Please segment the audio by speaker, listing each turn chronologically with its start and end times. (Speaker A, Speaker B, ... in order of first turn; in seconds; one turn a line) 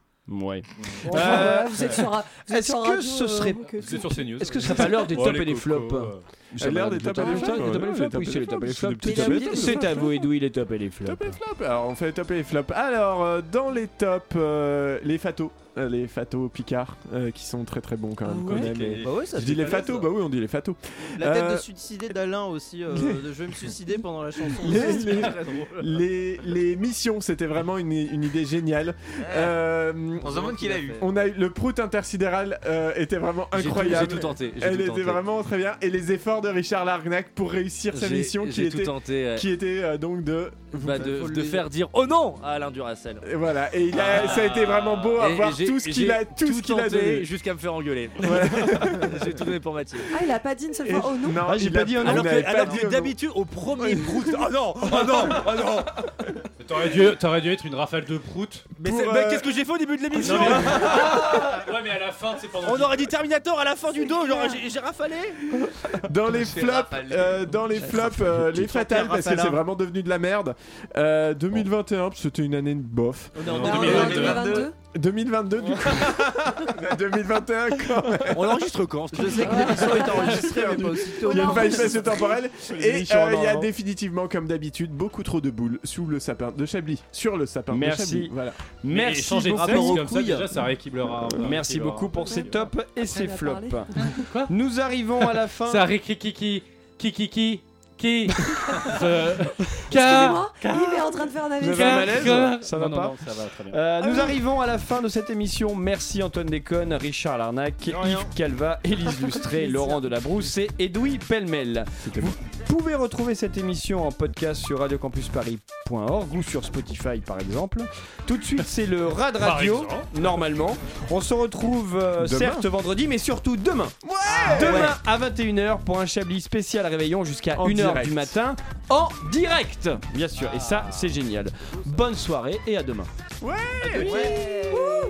Speaker A: 0.3-11.4
Speaker B: 1.1-4.3
Speaker C: 3.8-6.2
Speaker D: 6.6-10.0
Speaker B: 7.2-7.7
Speaker B: 9.1-10.2
Speaker D: 11.1-21.7
Speaker E: 18.4-19.7
Speaker F: 18.5-20.1
Speaker F: 21.0-26.0
Speaker D: 22.9-23.3
Speaker D: 24.5-30.4
Speaker G: 24.7-25.1
Speaker C: 25.1-25.4
Speaker E: 29.2-29.6
Speaker E: 30.2-31.1
Speaker G: 30.4-30.8
Speaker D: 31.0-41.4
Speaker G: 33.5-35.2
Speaker G: 37.9-39.5
Speaker G: 40.8-43.3
Speaker F: 41.1-41.6
Speaker D: 43.2-47.3
Speaker G: 43.9-50.1
Speaker D: 48.2-49.2
Speaker B: 50.1-51.5
Speaker D: 50.9-55.8
Speaker A: 51.4-52.6
Speaker G: 52.0-56.0
Speaker C: 56.6-58.7
Speaker D: 58.8-59.5
Speaker G: 58.8-61.5
Speaker D: 60.1-61.3
Speaker C: 60.2-63.1
Speaker G: 62.6-65.4
Speaker B: 64.0-64.6
Speaker D: 65.9-78.6
Speaker E: 66.3-67.8
Speaker G: 67.7-68.6
Speaker F: 68.6-69.6
Speaker F: 73.3-74.2
Speaker E: 73.4-74.7
Speaker B: 73.6-74.8
Speaker F: 75.6-76.1
Speaker G: 78.3-80.5
Speaker F: 79.1-82.2
Speaker B: 79.4-82.4
Speaker D: 80.2-88.6
Speaker G: 82.9-83.4
Speaker A: 83.0-83.7
Speaker A: 87.7-90.1
Speaker C: 88.9-92.7
Speaker G: 89.6-89.9
Speaker F: 90.0-90.5
Speaker A: 91.4-95.9
Speaker B: 92.3-94.2
Speaker C: 94.0-94.5
Speaker C: 95.7-101.1
Speaker B: 99.9-102.4
Speaker A: 101.6-133.1
Speaker C: 101.6-103.8
Speaker B: 104.0-104.4
Speaker F: 107.9-108.3
Speaker B: 109.4-110.2
Speaker D: 112.0-112.3
Speaker C: 119.4-120.1
Speaker D: 122.2-122.6
Speaker D: 124.0-124.9
Speaker F: 124.5-124.9
Speaker D: 127.5-128.3
Speaker D: 133.4-134.4
Speaker G: 133.8-134.3
Speaker E: 133.9-134.8
Speaker F: 134.3-134.8